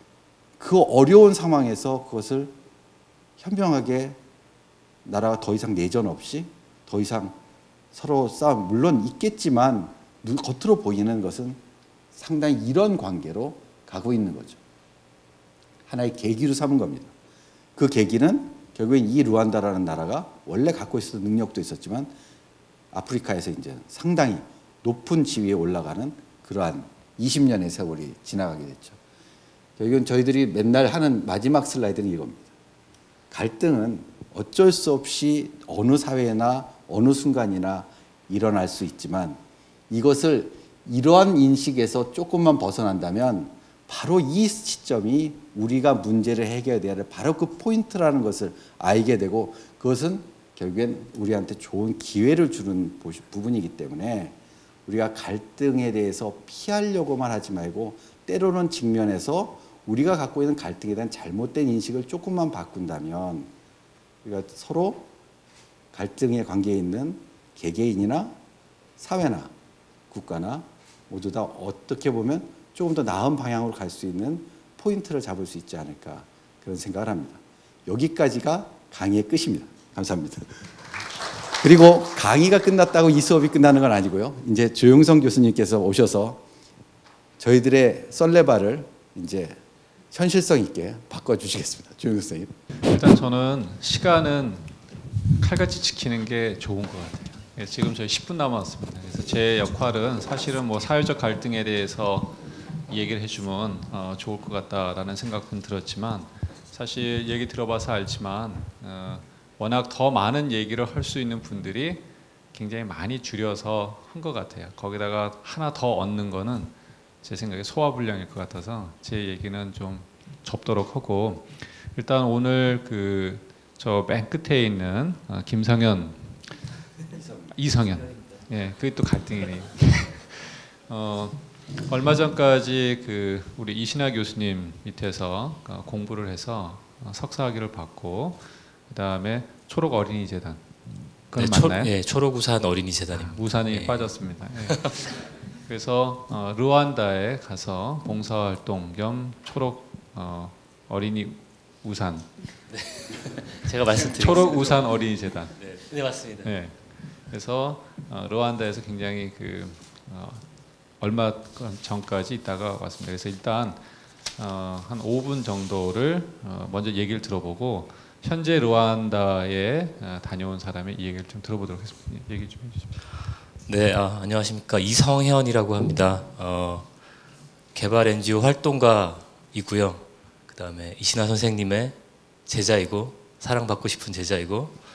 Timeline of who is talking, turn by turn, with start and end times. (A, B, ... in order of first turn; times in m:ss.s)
0:00.6-0:02.5 A
0:03.4-0:04.2 A
0:05.0-0:07.4 A
0:07.9-0:11.6 A
0:12.1-0:14.6 A
0:15.9-0:17.1 A
0:17.8-0:22.1 A
0:22.9-0:29.0 A
0:29.8-0:32.5 A
0:33.3-0:39.4 A
0:39.9-0:54.3 A
0:54.8-1:03.5 A
1:04.2-1:05.1 A
1:05.9-1:08.4 A
1:09.0-1:09.5 A
1:10.1-1:20.6 A
1:21.6-1:26.4 A
1:27.4-1:29.6 A
1:30.1-1:32.5 A
1:32.8-1:34.7 B
1:35.4-2:06.4 B
2:07.5-2:21.9 B
2:21.4-2:24.1 C
2:23.2-2:32.3 B
2:32.9-2:34.8 C
2:34.0-2:35.6 B
2:35.6-2:36.4 C
2:36.4-2:40.4 B
2:41.0-2:43.8 B
2:44.4-2:52.9 B
2:53.7-2:56.9 C
2:57.7-3:02.0 C
3:02.5-3:04.8 C